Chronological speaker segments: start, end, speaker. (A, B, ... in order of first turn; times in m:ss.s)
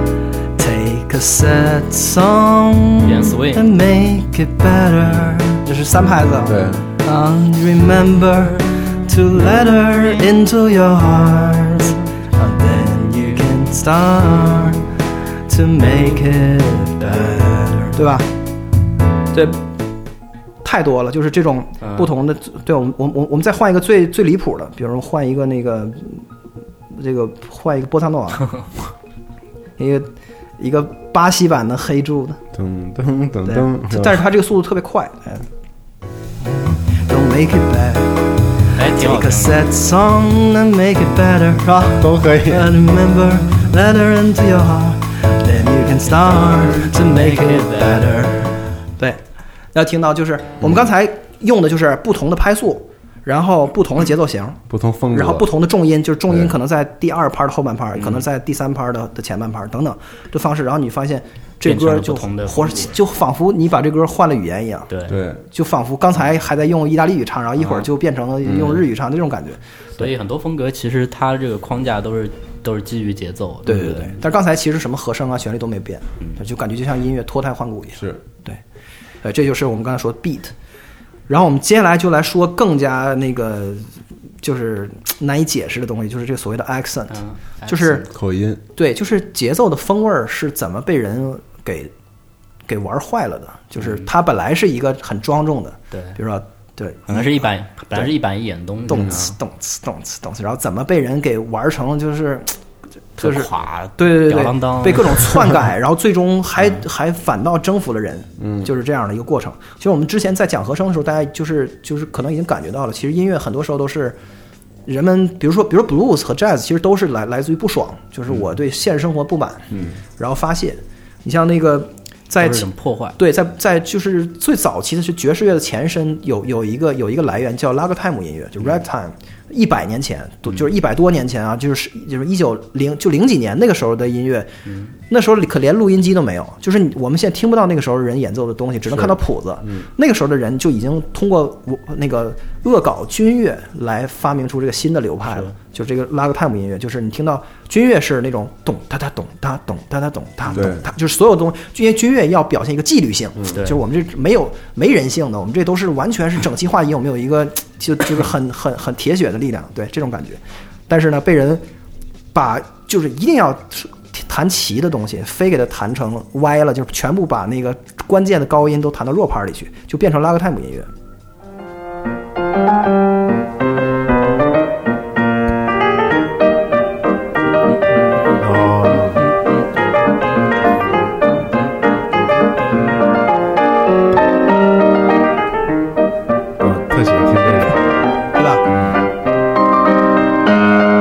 0:00.6-0:14.9 A
0:03.0-0:03.7 B
0:06.4-0:06.9 C
0:15.5-0:18.3 A
0:19.3-0:19.6 A
0:20.6-0:26.2 A
0:21.8-0:22.1 B
0:26.9-0:28.5 A
0:29.8-0:32.4 A
0:32.5-0:34.2 C
0:33.4-0:35.4 A
0:36.4-0:38.1 A
0:38.8-0:39.7 B
0:38.9-0:49.2 A
0:42.0-0:42.7 C
0:46.2-0:48.3 B
0:49.7-0:54.6 A
0:54.7-0:55.5 C
0:55.1-1:04.9 A
0:58.0-0:58.2 B
1:01.6-1:03.0 B
1:04.9-1:05.2 B
1:05.1-1:05.4 C
1:05.5-1:09.6 A
1:07.6-1:07.8 B
1:08.5-1:08.8 C
1:10.0-1:14.2 B
1:13.6-1:18.6 A
1:19.2-1:20.5 A
1:21.3-1:23.8 A
1:24.4-1:28.0 A
1:27.1-1:28.1 B
1:28.1-1:28.6 C
1:28.8-1:31.9 A
1:32.7-1:38.1 A
1:33.8-1:34.1 B
1:35.9-1:36.2 B
1:37.1-1:39.4 B
1:38.9-1:42.6 A
1:38.9-1:39.2 C
1:43.2-1:54.2 A
1:43.2-1:45.6 B
1:48.4-1:48.7 C
1:54.8-2:14.5 A
2:02.4-2:03.2 B
2:14.6-2:14.9 B
2:15.1-2:41.6 A
2:30.5-2:30.8 C
2:42.3-2:50.9 A
2:58.4-2:59.3 C
2:59.2-2:59.6 B
3:06.6-3:07.8 C
3:08.3-3:08.6 A